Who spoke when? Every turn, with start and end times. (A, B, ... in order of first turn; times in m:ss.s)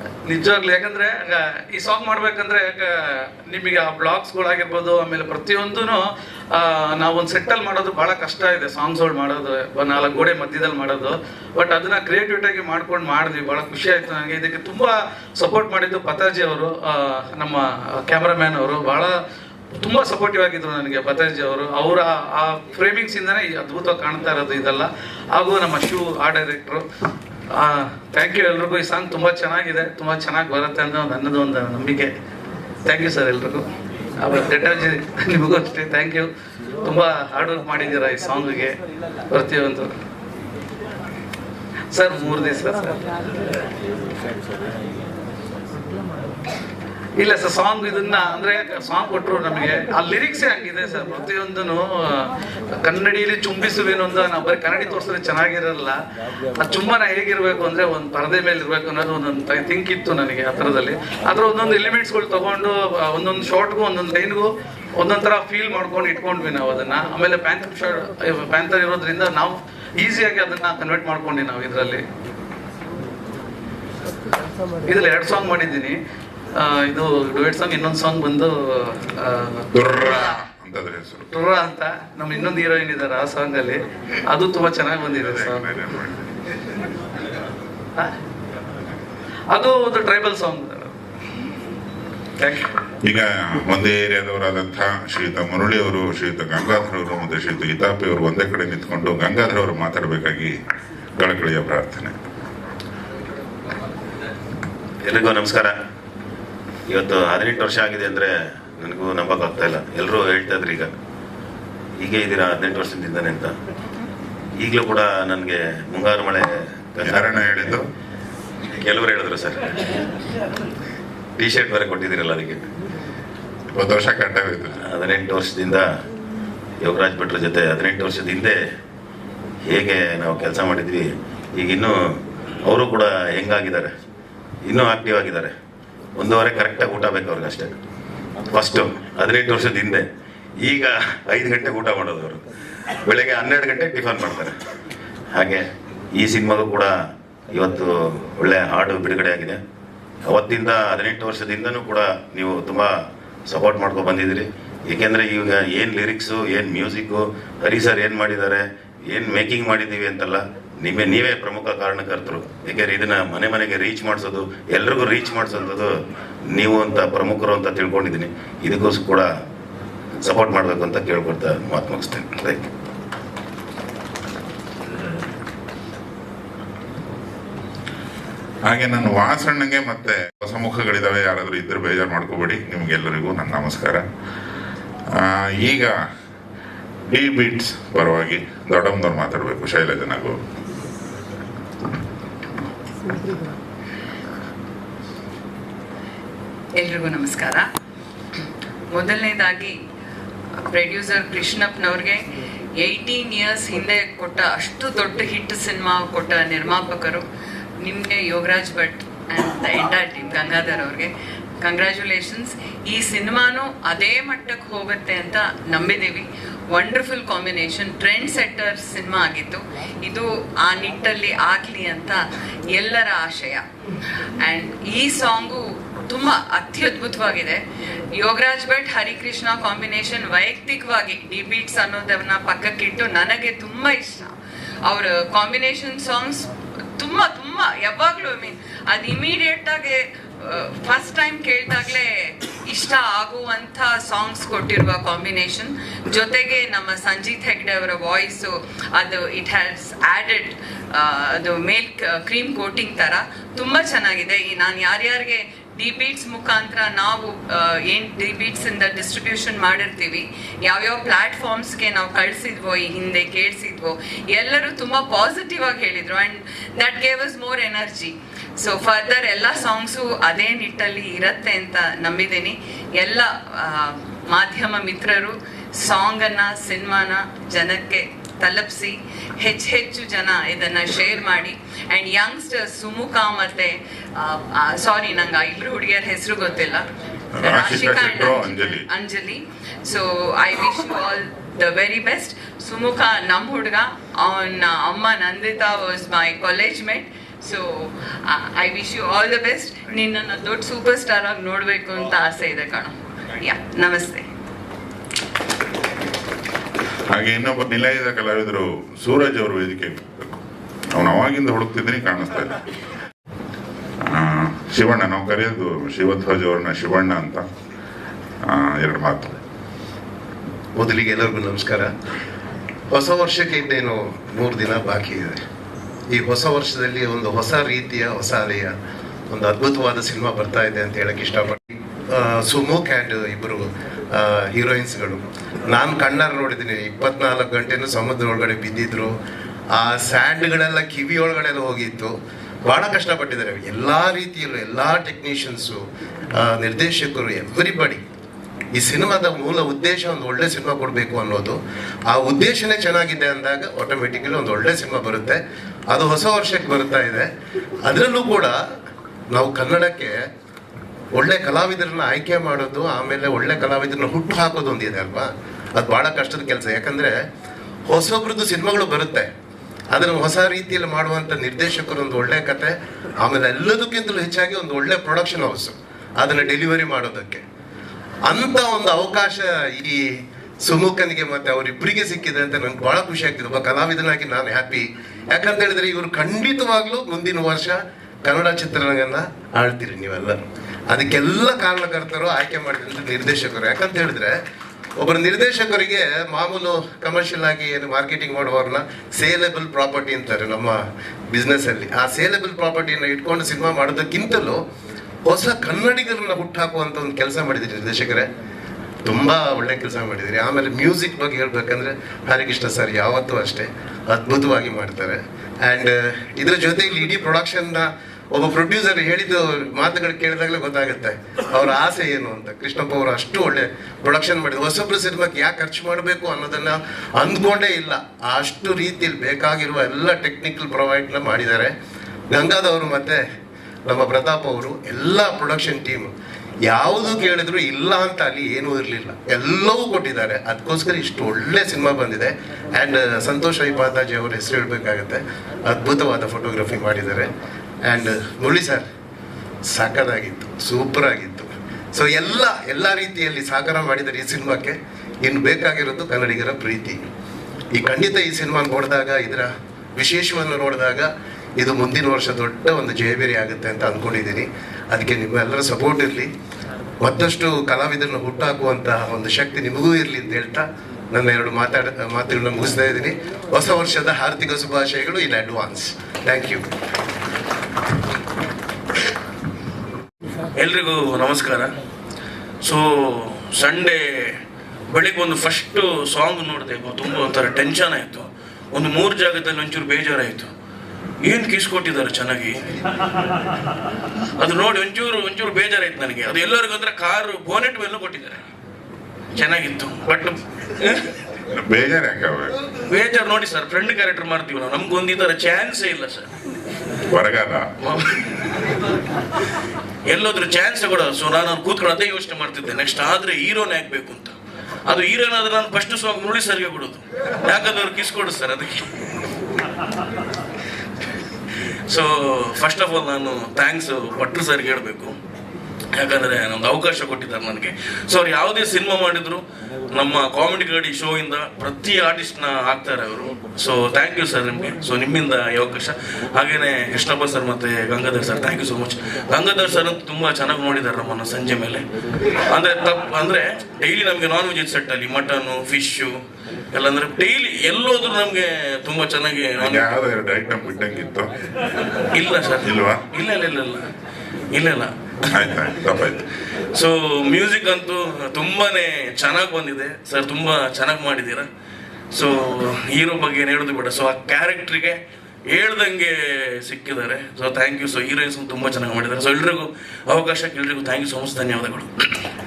0:00.2-0:19.2 A
0:19.8-0:26.8 A
0:27.5-0:32.1 A
0:32.8-0:33.6 A
0:34.2-0:36.3 A
0:36.8-0:38.7 A
0:39.3-0:39.9 A
0:41.9-0:43.0 A
0:47.2-0:56.0 A
0:56.6-1:12.0 A
1:14.8-1:16.0 A
1:16.5-1:19.6 A
1:19.7-1:21.3 B
1:21.3-1:25.7 A
1:25.1-1:26.4 B
1:29.5-1:30.9 A
1:32.4-1:32.7 A
1:33.0-1:40.6 B
1:41.2-1:42.2 B
1:45.0-1:45.7 C
1:46.9-1:50.9 C
1:52.0-1:53.5 C
1:54.6-1:57.3 C
1:57.0-1:57.9 B
1:58.8-1:59.9 C
2:01.4-2:02.6 C
2:03.7-2:04.8 B
2:04.8-2:05.9 C
2:06.8-2:08.6 C
2:09.7-2:11.0 C
2:11.6-2:12.1 C
2:12.6-2:13.9 C
2:14.7-2:15.5 C
2:16.2-2:17.7 C
2:18.5-2:20.0 C
2:20.6-2:22.4 C
2:23.0-2:24.5 C
2:25.3-2:26.9 C
2:27.5-2:29.6 C
2:30.3-2:46.0 C
2:46.5-2:49.3 C
2:50.2-2:52.7 C
2:58.6-3:04.0 B
3:05.1-3:06.0 B
3:07.1-3:10.4 B
3:16.8-3:17.6 D
3:18.9-3:19.8 D
3:20.7-3:22.2 D
3:22.8-3:27.2 D
3:27.8-3:31.1 D
3:31.6-3:42.2 D
3:42.7-3:43.6 D
3:44.4-3:47.6 D
3:48.1-3:54.3 D
3:54.8-4:46.8 D
4:47.3-4:48.8 B
4:47.4-5:04.3 D
5:07.1-5:12.6 B
5:14.0-5:17.5 B
5:18.4-5:19.4 B
5:20.8-5:21.9 E
5:22.9-5:25.4 E
5:26.1-5:28.7 E
5:29.3-5:39.2 E
5:39.7-5:48.0 E
5:48.7-5:57.3 E
5:57.8-5:58.6 E
5:59.3-6:00.3 E
6:01.1-6:07.2 E
6:07.9-6:09.3 E
6:09.9-6:17.4 E
6:18.2-6:30.4 E
6:30.9-6:34.4 E
6:35.0-6:44.6 E
6:45.2-6:48.3 E
6:49.0-7:11.7 E
7:12.3-7:13.2 E
7:13.9-7:16.1 E
7:16.6-7:28.9 E
7:29.7-7:37.0 E
7:37.7-7:46.3 E
7:47.0-7:56.7 E
8:00.5-8:01.7 F
8:02.6-8:04.4 F
8:04.9-8:10.5 F
8:11.2-8:12.6 F
8:14.4-8:18.4 F
8:19.3-8:21.1 F
8:21.5-8:22.5 B
8:22.9-8:26.3 F
8:27.1-8:27.7 B
8:27.8-8:28.4 F
8:30.0-8:34.3 F
8:34.8-8:39.0 F
8:41.9-8:45.1 F
8:45.9-9:01.8 F
9:02.5-9:06.2 F
9:06.7-9:09.9 F
9:09.6-9:11.5 B
9:12.1-9:13.9 F
9:12.6-9:13.0 B
9:14.5-9:14.9 F
9:15.2-9:16.2 B
9:16.7-9:21.5 F
9:22.1-9:31.9 F